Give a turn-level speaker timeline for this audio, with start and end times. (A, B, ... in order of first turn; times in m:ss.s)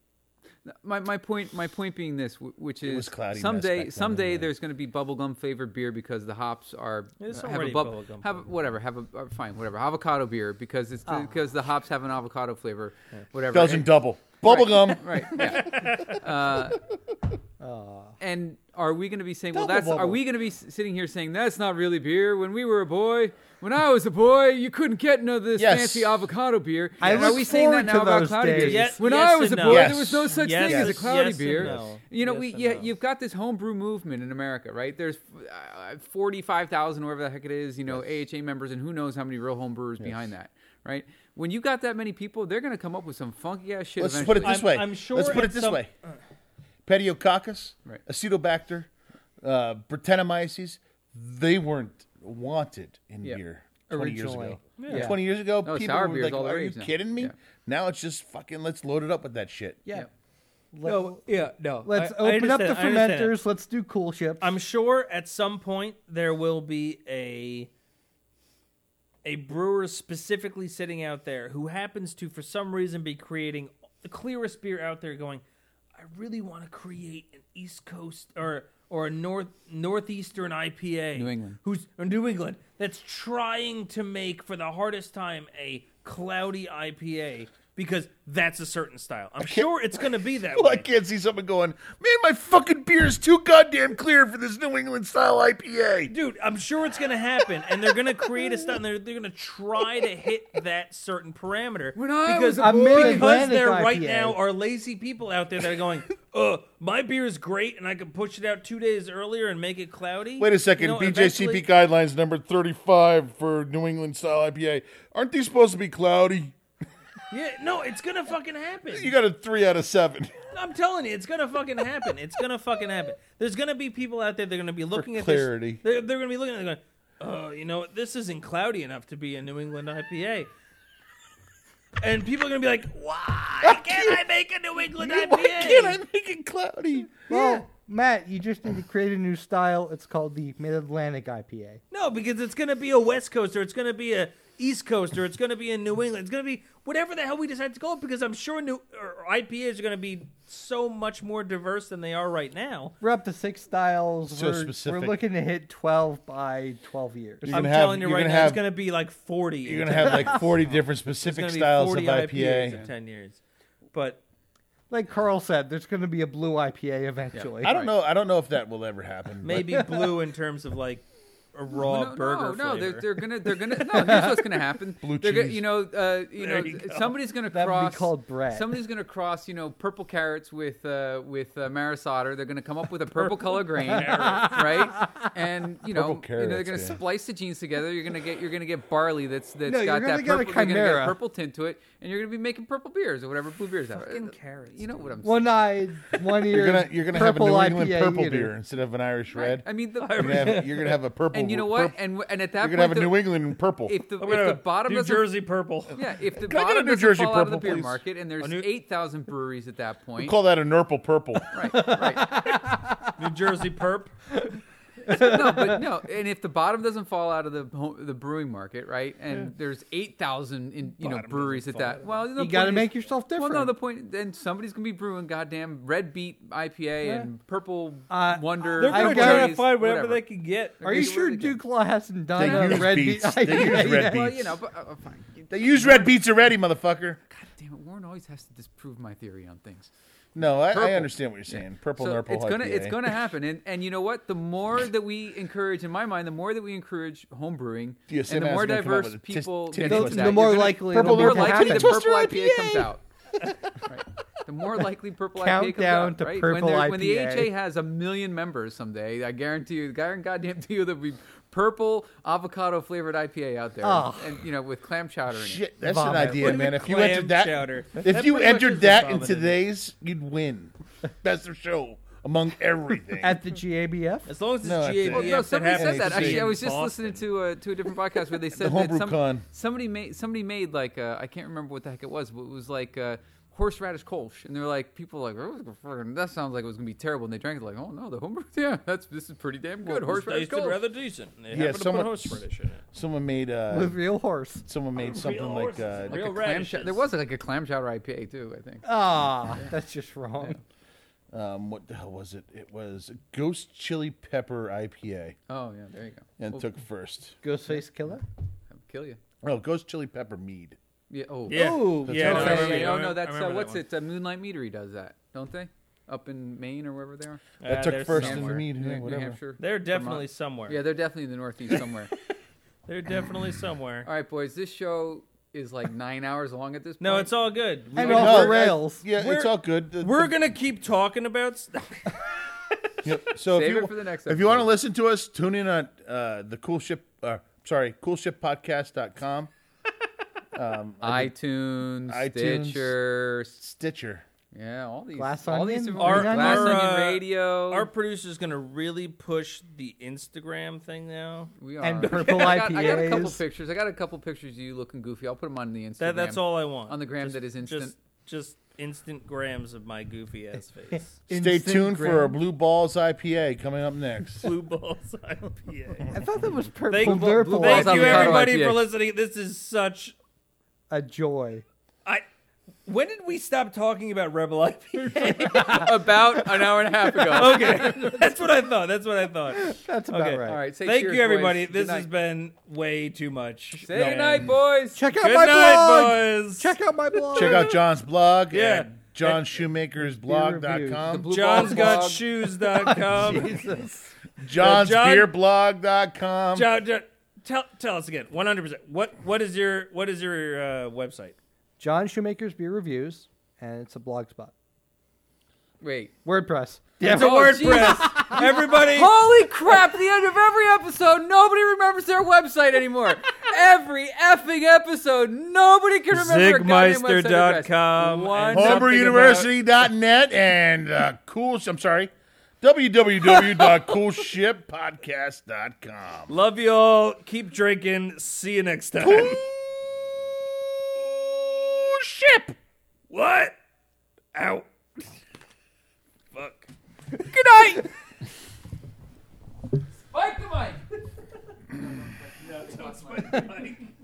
0:00.6-0:13.9 A
0:02.8-0:04.5 B
0:07.2-0:08.4 C
0:11.1-0:11.3 D
0:13.5-0:15.8 B
0:14.4-0:16.8 A
0:15.2-0:16.2 C
0:17.6-0:18.2 D
0:18.2-0:44.6 A
0:19.5-0:20.2 D
0:25.6-0:26.2 B
0:27.0-0:29.0 D
0:28.6-0:32.9 C
0:29.6-0:31.8 B
0:40.0-0:40.3 B
0:44.0-0:45.9 B
0:44.4-0:45.9 C
0:46.8-0:48.9 B
0:49.4-0:59.8 B
0:53.9-0:54.9 D
0:54.8-0:55.1 C
0:54.9-0:57.3 A
1:00.7-1:01.2 D
1:00.8-1:03.4 C
1:01.8-1:04.5 D
1:04.4-1:07.7 C
1:09.2-1:15.4 C
1:16.0-1:30.9 C
1:21.1-1:21.6 A
1:29.4-1:36.1 B
1:36.1-1:51.6 C
1:41.9-1:43.4 A
1:42.5-1:44.4 D
1:50.4-1:56.6 B
1:57.3-1:59.1 C
1:58.9-2:00.4 B
2:00.5-2:10.5 C
2:04.9-2:05.8 B
2:12.0-2:16.0 C
2:13.6-2:14.2 B
2:15.0-2:17.1 B
2:17.3-2:17.6 C
2:17.3-2:21.8 D
2:21.9-2:33.0 C
2:33.0-2:37.6 D
2:34.3-2:35.2 B
2:37.4-2:38.6 B
2:37.5-2:43.4 C
2:39.6-2:42.8 B
2:40.1-2:40.4 D
2:43.9-2:44.2 C
2:44.9-2:47.7 D
2:47.3-2:47.9 A
2:47.6-2:49.8 B
2:49.4-2:54.3 C
2:51.7-3:15.7 A
2:55.0-2:55.6 B
2:56.4-2:57.1 C
2:57.5-2:58.8 D
3:03.8-3:04.5 C
3:05.8-3:07.0 B
3:09.6-3:11.2 D
3:13.9-3:15.1 C
3:15.2-3:18.5 D
3:16.5-3:22.0 B
3:19.3-3:20.6 A
3:20.0-3:21.0 C
3:21.3-3:23.3 A
3:22.6-3:24.0 B
3:23.8-3:25.3 A
3:24.2-3:26.0 C
3:25.9-3:30.4 A
3:26.3-3:28.0 B
3:28.4-3:28.7 C
3:30.2-3:31.9 B
3:31.5-3:32.5 A
3:31.6-3:33.1 D
3:33.2-3:34.1 C
3:35.1-3:35.8 D
3:35.1-3:50.2 A
3:41.0-3:42.2 C
3:42.4-3:43.7 D
3:47.0-3:47.3 D
3:48.1-3:49.6 D
3:48.8-3:51.2 C
3:50.8-3:51.6 A
3:50.8-3:54.4 D
3:52.3-3:54.5 B
3:52.4-3:56.1 A
3:55.5-3:57.2 B
3:57.3-3:59.9 A
4:00.3-4:03.1 B
4:00.7-4:13.0 A
4:08.1-4:12.9 B
4:09.8-4:12.2 D
4:13.8-4:25.6 A
4:15.3-4:17.5 D
4:23.8-4:24.4 D
4:25.3-4:33.4 B
4:25.8-4:26.7 D
4:26.4-4:29.5 C
4:33.2-4:34.3 D
4:34.3-4:37.2 C
4:34.6-4:36.5 B
4:35.1-4:50.8 A
4:38.5-4:39.4 B
4:49.9-4:52.8 C
4:51.5-4:54.0 B
4:53.7-4:54.6 D
4:54.6-4:56.2 B
4:54.9-4:57.1 C
4:56.1-4:58.9 A
4:58.8-5:00.6 D
5:01.3-5:05.4 B
5:05.5-5:06.6 A
5:06.4-5:07.4 B
5:07.4-5:08.2 D
5:08.7-5:09.2 A
5:09.4-5:10.8 B
5:11.1-5:17.4 A
5:11.5-5:13.8 C
5:11.5-5:12.8 D
5:12.0-5:12.9 B
5:17.6-5:18.6 C
5:17.6-5:19.4 B
5:18.1-5:22.1 A
5:19.6-5:20.8 C
5:22.9-5:24.1 C
5:24.0-5:27.3 A
5:27.0-5:32.7 C
5:28.0-5:29.0 D
5:28.0-5:30.3 B
5:33.0-5:39.5 B
5:33.5-5:34.7 A
5:40.5-5:41.3 B
5:41.0-5:43.6 A
5:42.1-5:42.9 B
5:43.6-5:44.2 B
5:44.5-5:47.9 A
5:45.2-5:46.8 D
5:46.0-5:51.5 C
5:51.6-5:57.9 A
5:51.8-5:53.4 D
5:52.1-5:53.0 C
5:56.0-6:01.1 C
6:01.3-6:02.4 D
6:01.3-6:04.5 B
6:04.3-6:06.2 C
6:06.1-6:08.4 D
6:06.9-6:10.2 C
6:07.0-6:08.8 A
6:10.9-6:11.6 D
6:12.8-6:16.2 C
6:15.3-6:18.2 A
6:17.3-6:24.5 C
6:19.5-6:20.6 D
6:20.4-6:22.1 A
6:23.8-6:25.0 A
6:23.9-6:24.4 B
6:24.9-6:27.8 D
6:25.1-6:27.7 C
6:27.3-6:31.3 B
6:28.5-6:29.6 C
6:30.0-6:34.1 D
6:31.0-6:32.2 A
6:31.3-6:33.6 C
6:34.4-6:36.7 B
6:34.5-6:35.3 C
6:36.5-6:41.4 C
6:41.8-6:44.5 D
6:45.8-6:46.1 A
6:46.2-6:48.5 D
6:47.0-6:49.1 C
6:47.0-6:59.5 A
6:56.1-6:59.4 C
6:58.5-7:02.1 B
7:02.6-7:06.3 B
7:06.3-7:09.4 C
7:09.0-7:09.8 B
7:10.7-7:12.6 B
7:13.1-7:13.5 C
7:14.3-7:15.1 C
7:16.3-7:16.7 C
7:17.3-7:17.8 A
7:20.1-7:20.8 A
7:21.7-7:23.4 A
7:22.4-7:23.9 C